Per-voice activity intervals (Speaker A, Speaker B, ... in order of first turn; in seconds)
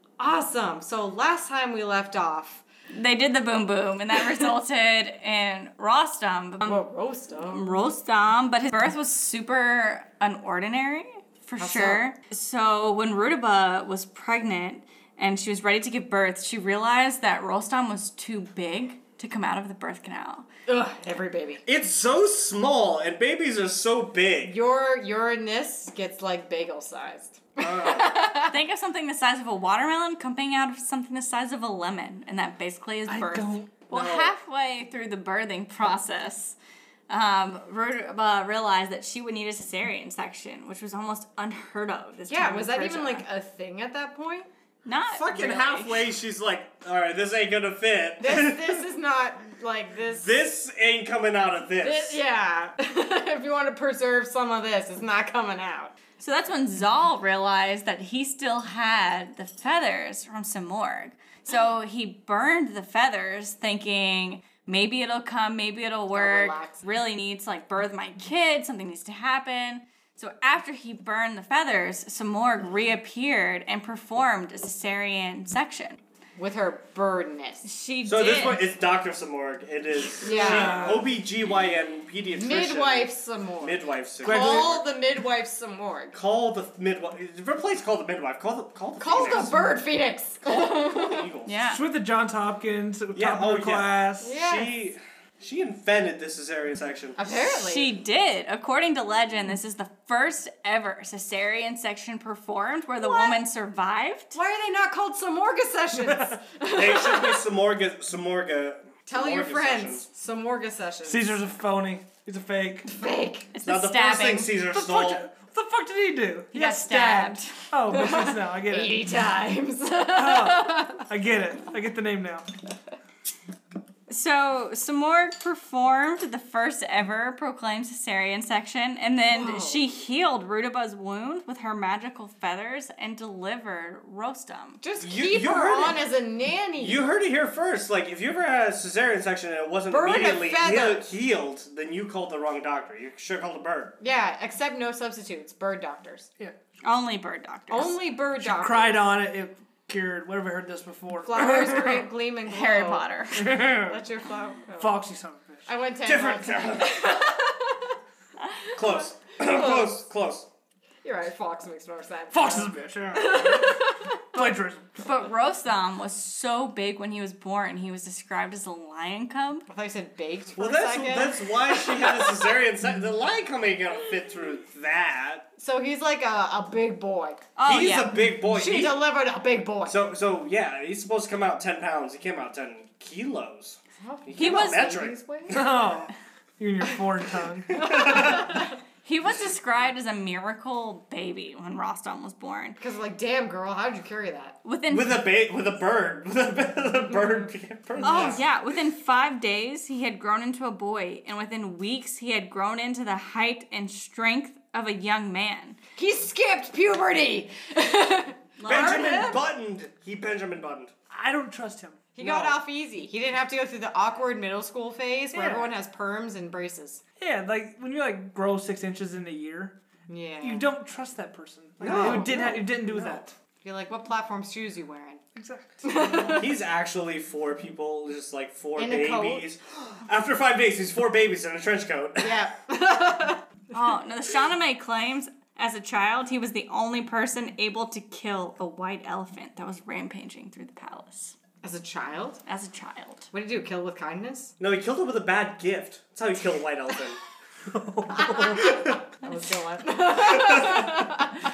Speaker A: 0.2-2.6, 6.6-7.8, 11.6-12.1, 20.7-21.6, 24.4-28.6, 33.9-34.3, 42.3-44.5, 48.2-50.4, 51.8-55.9, 66.1-66.8, 76.4-77.7, 80.2-81.0, 82.4-86.2, 89.0-91.3, 94.2-94.8, 97.2-97.9, 103.0-103.4, 104.3-107.5, 109.1-111.4, 112.9-113.5, 116.8-117.3, 117.9-121.1, 129.3-129.8, 134.8-137.0, 139.9-141.1, 144.0-146.3, 147.7-149.1, 151.2-155.0, 155.7-157.9, 158.6-160.0, 161.0-164.2, 169.7-172.3, 175.6-177.4, 178.5-180.0, 184.0-185.6, 187.8-188.7, 192.8-194.6, 198.0-198.4, 206.0-209.4, 212.2-217.0, 220.1-220.7, 221.9-225.2, 225.8-226.5, 228.8-229.4, 232.2-233.4, 241.6-242.4, 243.3-244.5, 248.1-251.3
Speaker B: 2.9-6.8, 7.4-20.5, 28.4-36.6, 37.1-43.2, 44.9-46.1, 56.2-76.0, 77.6-78.7, 91.5-91.8, 97.3-104.3, 113.5-114.5, 116.5-117.6, 124.1-134.8, 146.8-148.0, 152.5-153.5, 165.0-169.7, 177.6-178.2, 184.4-185.0, 189.0-192.8, 194.6-195.2, 198.0-205.8, 208.6-209.2, 233.7-241.4, 242.5-243.3
Speaker C: 21.7-24.6, 27.6-28.2, 45.1-48.8, 50.2-52.2, 78.0-84.7, 86.1-89.7, 90.4-91.5, 93.1-97.2, 106.7-110.1, 113.7-115.2, 135.0-136.1, 136.8-144.0, 156.1-157.1, 158.8-160.5, 170.6-175.5, 177.7-179.1, 179.9-185.2, 187.8-188.6, 194.9-198.4, 208.7-210.9, 212.2-212.6, 221.8-222.8, 226.3-232.3, 244.6-249.0, 250.5-250.8
Speaker D: 33.1-33.7, 80.3-81.1, 84.2-84.9, 91.6-94.3, 111.0-112.9, 114.7-119.1, 120.1-122.5, 148.4-152.0, 153.3-154.0, 154.8-155.7, 162.3-164.9, 185.5-187.9, 211.1-212.1, 215.3-215.7, 217.2-219.8, 220.4-223.3, 225.4-226.4